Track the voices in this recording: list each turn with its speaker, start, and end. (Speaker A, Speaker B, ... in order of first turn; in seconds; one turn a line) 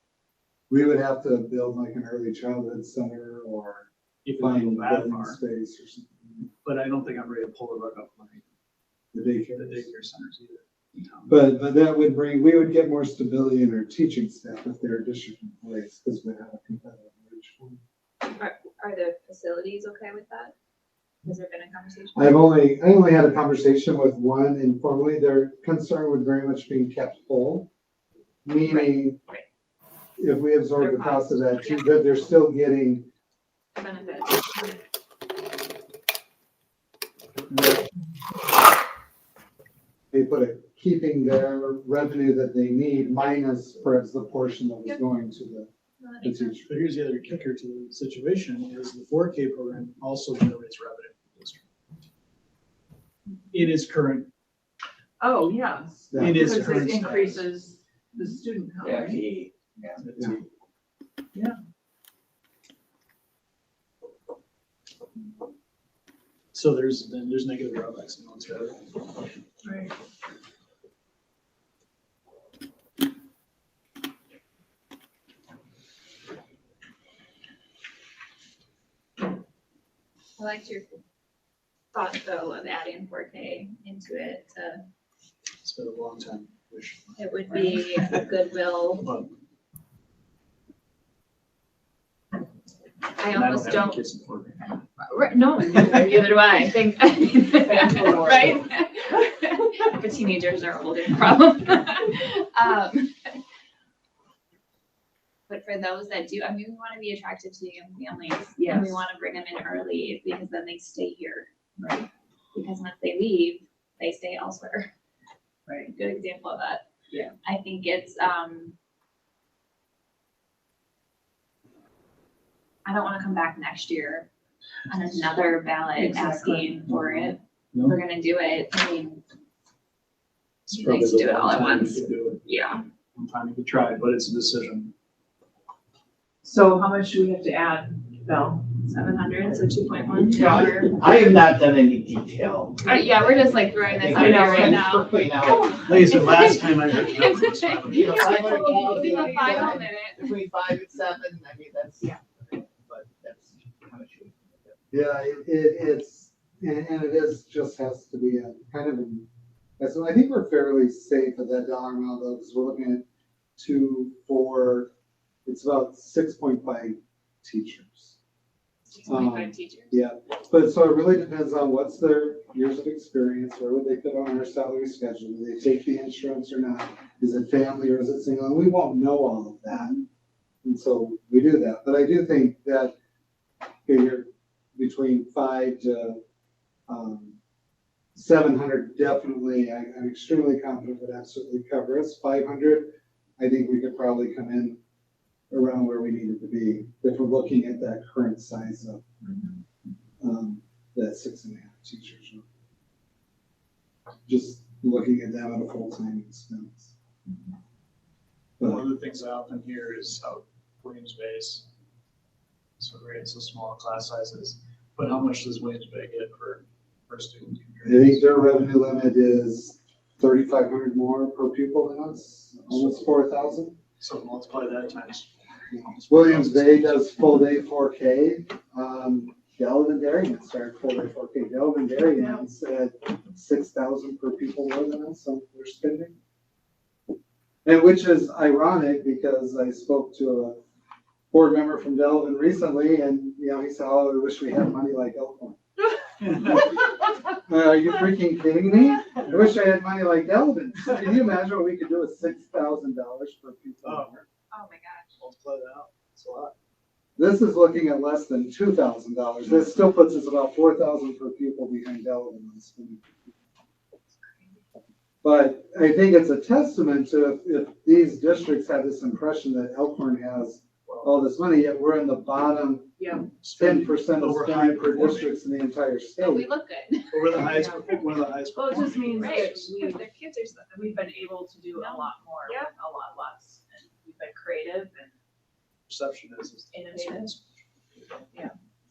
Speaker A: 0.7-6.5
Speaker B: 4.2-5.4
Speaker B: 6.6-8.4
Speaker A: 9.1-9.9
Speaker B: 9.5-11.3
Speaker A: 11.3-17.8
Speaker C: 18.3-20.5
Speaker C: 21.2-22.5
Speaker A: 22.1-27.7
Speaker A: 28.4-29.2
Speaker C: 28.7-29.4
Speaker A: 30.2-33.1
Speaker C: 30.8-32.2
Speaker C: 33.7-34.8
Speaker A: 40.1-45.7
Speaker C: 46.0-46.6
Speaker A: 46.2-46.7
Speaker B: 46.7-51.6
Speaker B: 53.5-54.3
Speaker D: 55.2-59.2
Speaker A: 56.1-57.3
Speaker B: 56.1-57.4
Speaker E: 58.8-60.2
Speaker B: 60.0-60.4
Speaker B: 66.5-68.9
Speaker D: 69.6-69.9
Speaker C: 80.4-81.0
Speaker C: 81.9-84.8
Speaker B: 85.6-88.2
Speaker C: 87.2-89.1
Speaker B: 89.0-89.3
Speaker C: 93.2-94.0
Speaker B: 93.3-94.8
Speaker C: 95.0-103.4
Speaker D: 97.6-98.6
Speaker C: 105.5-111.5
Speaker D: 108.6-109.0
Speaker D: 111.8-112.1
Speaker C: 112.5-114.9
Speaker D: 115.7-115.9
Speaker C: 115.9-116.8
Speaker C: 117.4-118.8
Speaker C: 122.8-124.3
Speaker C: 124.9-129.2
Speaker D: 125.9-126.8
Speaker B: 126.9-127.2
Speaker B: 130.7-132.4
Speaker C: 130.7-132.8
Speaker B: 133.2-134.9
Speaker D: 136.4-138.7
Speaker C: 138.8-140.9
Speaker E: 140.3-146.0
Speaker C: 142.8-150.3
Speaker B: 144.1-144.8
Speaker B: 145.8-148.8
Speaker E: 147.9-154.8
Speaker D: 148.4-149.7
Speaker A: 154.9-159.3
Speaker A: 159.8-163.0
Speaker A: 163.6-164.9
Speaker A: 165.4-168.2
Speaker C: 168.9-170.0
Speaker A: 169.0-180.0
Speaker A: 180.6-182.9
Speaker A: 183.8-186.2
Speaker A: 186.9-187.3
Speaker A: 188.1-194.8
Speaker A: 195.5-199.0
Speaker A: 200.2-202.4
Speaker A: 204.3-206.9
Speaker B: 208.6-211.7
Speaker B: 212.8-218.3
Speaker A: 217.8-223.8
Speaker B: 222.7-223.1
Speaker B: 224.0-227.1
Speaker A: 226.1-236.2
Speaker A: 237.6-240.6
Speaker A: 241.3-245.6
Speaker A: 247.4-254.2
Speaker B: 253.8-254.2
Speaker C: 254.5-255.2
Speaker B: 255.2-256.5
Speaker A: 257.2-263.0
Speaker A: 265.2-272.9
Speaker B: 270.9-271.2
Speaker D: 273.0-273.3
Speaker B: 273.4-275.4
Speaker A: 273.5-276.5
Speaker C: 276.2-278.1
Speaker B: 277.1-279.7
Speaker D: 278.5-280.0
Speaker C: 278.7-280.8
Speaker D: 280.7-285.1
Speaker C: 281.7-282.7
Speaker B: 285.9-287.4
Speaker D: 286.7-287.3